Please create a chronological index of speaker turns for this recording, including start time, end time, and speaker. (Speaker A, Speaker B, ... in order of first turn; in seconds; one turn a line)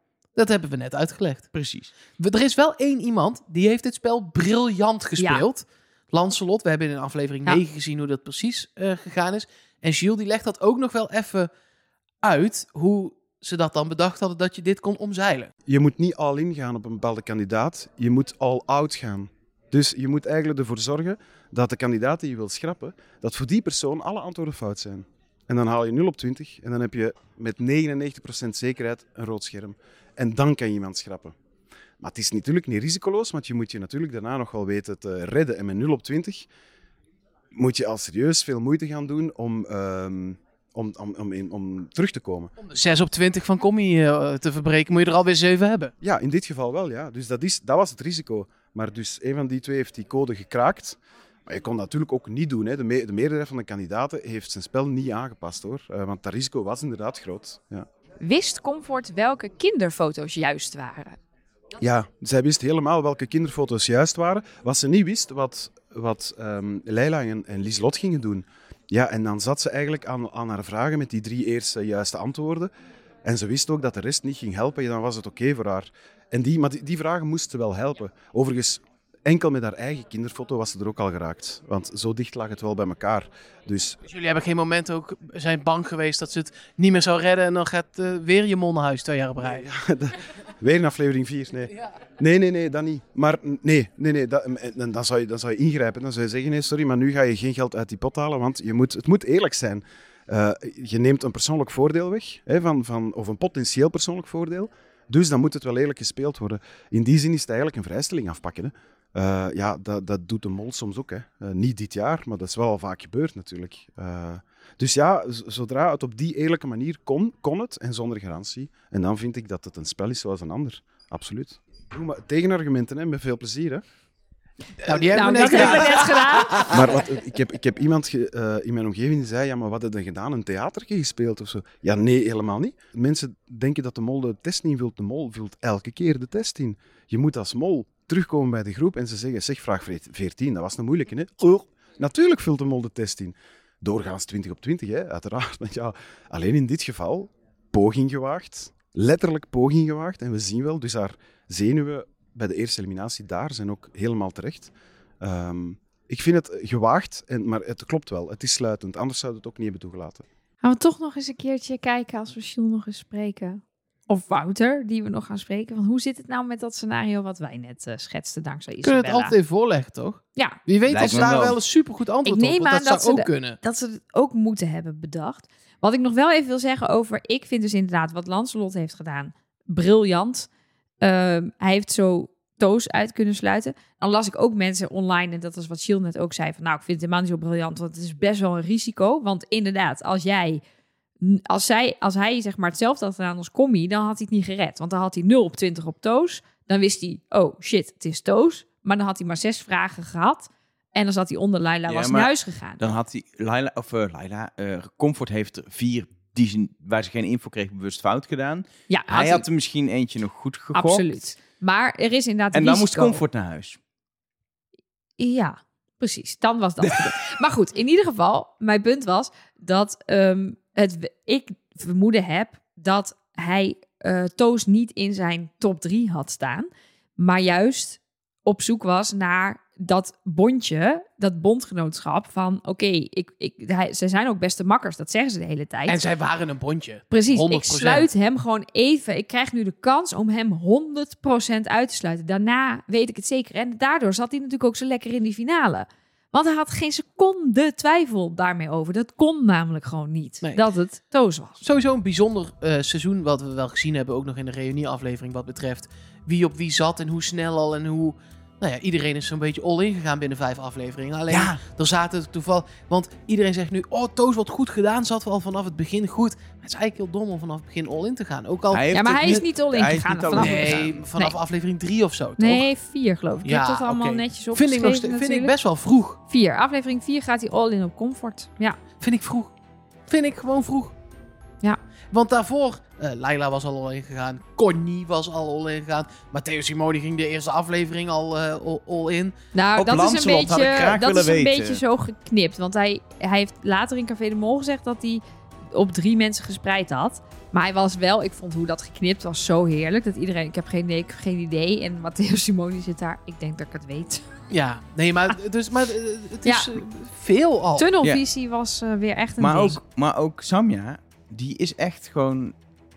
Speaker A: 0.3-1.5
Speaker B: 1.5-1.9
Speaker A: 2.2-11.5
Speaker A: 12.2-15.5
Speaker C: 15.7-31.4
Speaker C: 32.0-36.5
Speaker C: 37.5-42.6
Speaker A: 42.6-45.9
Speaker C: 46.0-57.9
Speaker D: 58.2-61.2
Speaker C: 61.8-72.7
Speaker C: 73.2-84.0
Speaker A: 84.0-89.7
Speaker C: 89.4-123.8
Speaker A: 124.8-126.9
Speaker D: 125.1-126.7
Speaker C: 126.7-160.2
Speaker D: 160.6-169.3
Speaker A: 168.8-173.6
Speaker D: 170.3-171.4
Speaker B: 170.9-171.6
Speaker D: 172.2-180.5
Speaker D: 181.0-190.6
Speaker D: 191.2-202.9
Speaker B: 201.9-211.1
Speaker D: 208.9-209.4
Speaker D: 210.7-213.2
Speaker B: 212.5-213.8
Speaker D: 215.2-236.0
Speaker A: 235.9-238.1
Speaker D: 237.1-251.6
Speaker A: 251.6-268.9
Speaker B: 261.3-261.6
Speaker B: 268.7-271.0
Speaker D: 268.9-271.3
Speaker A: 270.3-272.6
Speaker D: 272.4-275.5
Speaker A: 273.4-276.2
Speaker D: 276.3-278.8
Speaker A: 279.0-279.5
Speaker A: 280.1-280.9
Speaker A: 282.1-289.4
Speaker D: 289.5-304.2
Speaker B: 289.8-291.8
Speaker A: 304.5-307.9
Speaker D: 306.4-306.8
Speaker D: 307.8-309.8
Speaker B: 309.4-312.6